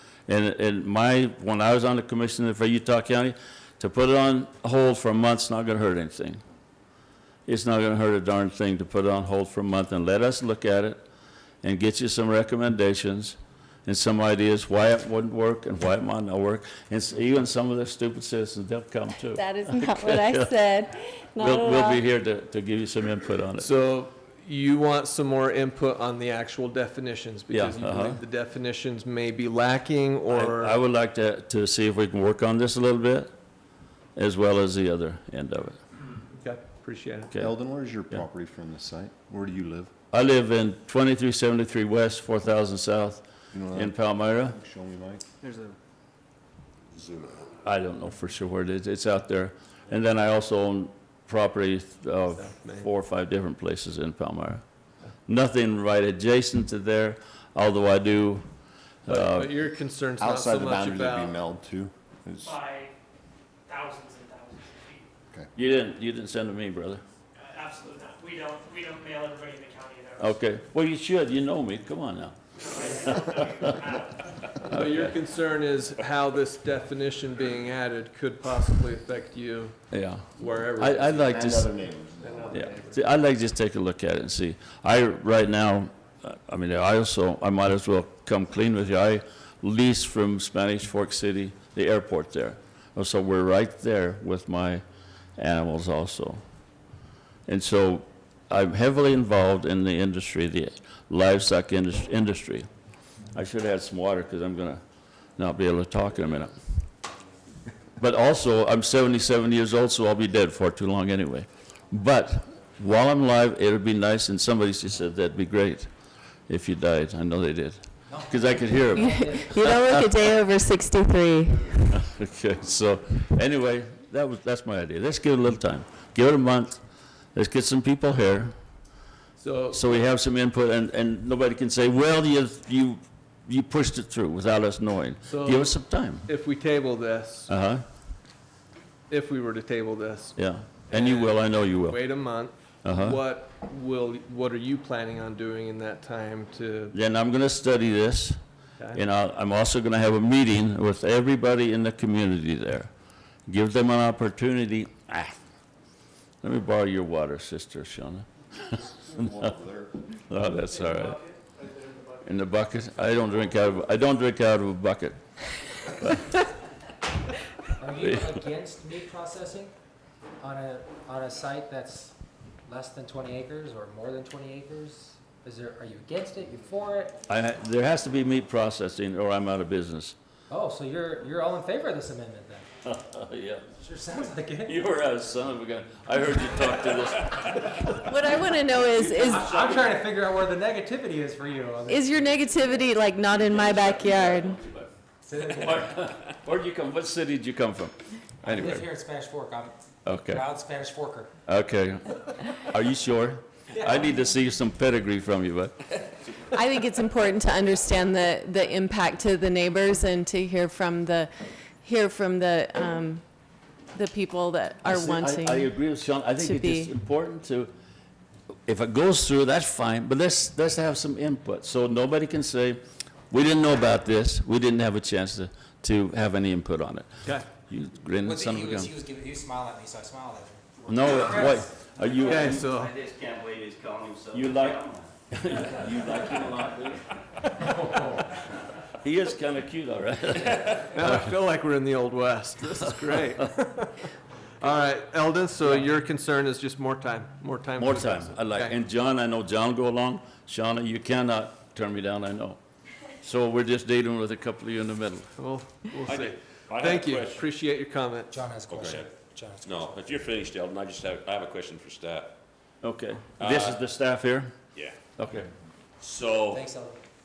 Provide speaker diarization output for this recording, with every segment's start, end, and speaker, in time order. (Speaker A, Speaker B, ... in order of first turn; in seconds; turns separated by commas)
Speaker A: 0.3-6.4, Speaker A: 7.5-11.0, Speaker A: 11.6-20.5, Speaker B: 19.3-22.0, Speaker A: 21.4-23.7, Speaker C: 23.6-30.8, Speaker A: 27.5-28.2, Speaker A: 30.3-33.3, Speaker A: 34.1-35.8, Speaker C: 36.3-37.3, Speaker D: 37.4-39.9, Speaker A: 40.1-44.6, Speaker D: 43.5-45.2, Speaker E: 46.9-47.5, Speaker A: 47.6-54.6, Speaker C: 52.3-52.9, Speaker A: 55.3-58.5, Speaker A: 59.0-59.5, Speaker C: 59.1-61.4, Speaker D: 60.2-62.6, Speaker F: 62.4-62.9, Speaker F: 63.6-65.1, Speaker A: 65.5-67.0, Speaker F: 67.4-70.4, Speaker A: 70.2-73.7, Speaker F: 72.6-74.7, Speaker C: 74.6-79.8, Speaker A: 74.7-75.1, Speaker A: 79.9-81.7, Speaker C: 80.3-81.5, Speaker D: 81.2-82.7, Speaker C: 82.2-83.0, Speaker A: 82.5-94.8, Speaker A: 95.4-96.4, Speaker A: 97.5-102.7, Speaker A: 103.3-104.8, Speaker A: 105.4-106.5, Speaker A: 108.0-115.9, Speaker A: 116.5-120.1, Speaker G: 118.1-119.7, Speaker B: 118.9-121.9, Speaker A: 121.9-126.8, Speaker A: 127.3-128.5, Speaker C: 129.4-129.8, Speaker A: 129.7-136.3, Speaker C: 135.3-137.5, Speaker A: 137.5-137.8, Speaker C: 139.1-140.4, Speaker A: 140.4-142.0, Speaker C: 140.9-146.9, Speaker A: 142.8-143.2, Speaker A: 146.9-148.4, Speaker A: 148.9-152.9, Speaker A: 153.5-155.4, Speaker A: 156.4-158.9, Speaker D: 159.1-159.9, Speaker A: 160.3-161.2, Speaker C: 161.6-162.0, Speaker A: 162.2-165.2, Speaker A: 165.8-166.2, Speaker G: 167.8-169.7, Speaker A: 168.0-168.4, Speaker G: 170.4-172.1, Speaker G: 172.7-177.2, Speaker A: 177.3-180.1, Speaker G: 180.5-182.7, Speaker A: 182.8-183.7, Speaker G: 183.8-184.8, Speaker A: 184.5-188.1, Speaker B: 188.0-189.6, Speaker A: 189.0-189.8, Speaker G: 189.3-192.2, Speaker B: 191.9-194.6, Speaker A: 193.6-194.8, Speaker G: 195.3-195.9, Speaker A: 195.4-198.9, Speaker G: 198.4-201.3, Speaker A: 200.0-200.5, Speaker A: 201.5-205.9, Speaker B: 206.5-213.2, Speaker B: 213.9-216.9, Speaker A: 214.8-217.7, Speaker A: 218.7-228.9, Speaker G: 228.2-232.3, Speaker A: 230.9-232.7, Speaker C: 232.2-232.9, Speaker H: 232.7-235.1, Speaker A: 234.3-237.1, Speaker A: 239.0-241.3, Speaker C: 240.9-244.0, Speaker C: 244.6-248.8, Speaker A: 247.8-252.6, Speaker A: 253.2-255.3, Speaker C: 255.4-258.3, Speaker E: 256.1-257.4, Speaker G: 258.3-260.0, Speaker E: 258.7-262.4, Speaker A: 262.8-264.5, Speaker E: 263.4-263.8, Speaker A: 265.2-265.5, Speaker E: 266.0-266.7, Speaker G: 266.5-267.0